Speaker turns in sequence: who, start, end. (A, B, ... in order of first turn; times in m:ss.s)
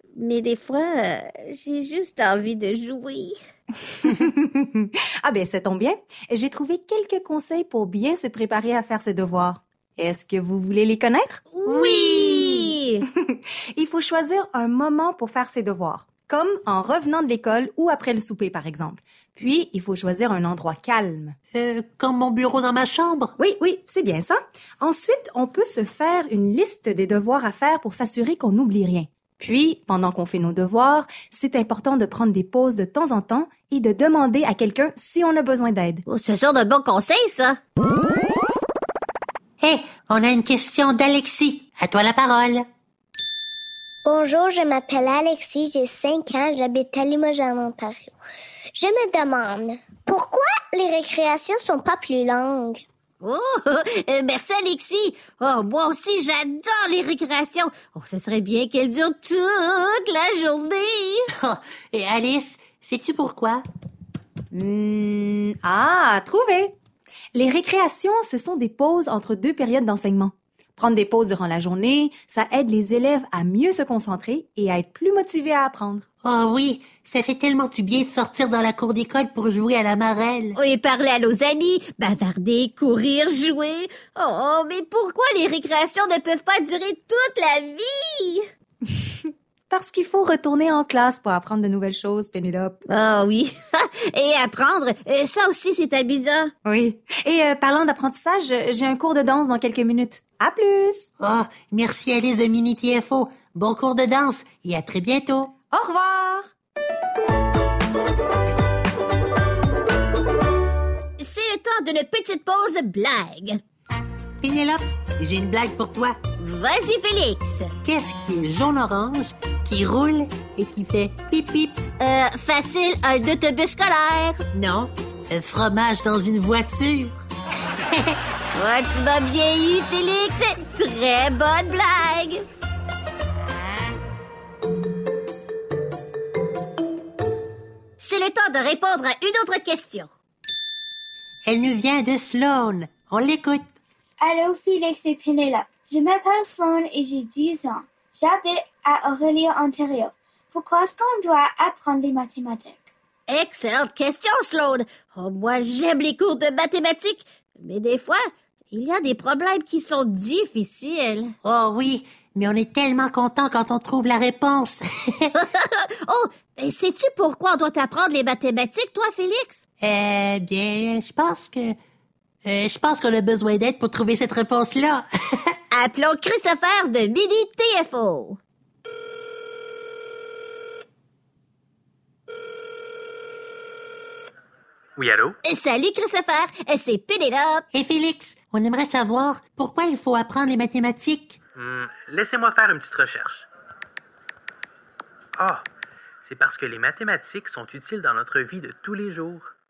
0:00.2-0:03.4 A
0:03.9-0:11.4 B
0:11.5-0:13.0 A
0:11.7-0:12.7 C
0:13.2-0:21.4 B
0:21.5-0:23.4 C
0:23.4-0:36.0 B
0:36.1-0:37.6 A
0:39.6-0:42.6 C
0:44.0-0:48.2 D
0:48.8-0:52.8 D
0:53.2-1:01.3 A
1:01.4-1:03.6 C
1:04.5-1:06.7 B
1:07.4-1:16.0 B
1:16.2-1:20.6 C
1:20.6-1:28.4 A
1:29.7-1:32.8 B
1:32.9-1:36.5 A
1:36.6-1:41.1 B
1:41.2-1:45.5 C
1:45.7-1:46.5 B
1:51.2-1:53.6 A
1:54.4-1:56.2 C
1:56.4-1:57.7 A
1:57.8-2:01.8 C
2:02.0-2:04.4 A
2:04.5-2:07.1 C
2:08.6-2:12.4 A
2:18.0-2:20.1 A
2:21.5-2:23.6 C
2:24.2-2:32.8 E
2:33.3-2:41.3 A
2:41.4-2:44.8 C
2:45.5-2:49.6 A
2:49.8-2:51.7 C
2:52.4-2:55.0 C
2:55.7-2:58.4 A
3:05.0-3:05.4 F
3:05.4-3:07.6 A
3:07.7-3:11.4 C
3:11.6-3:13.4 F
3:15.4-3:15.6 F
3:16.2-3:19.5 F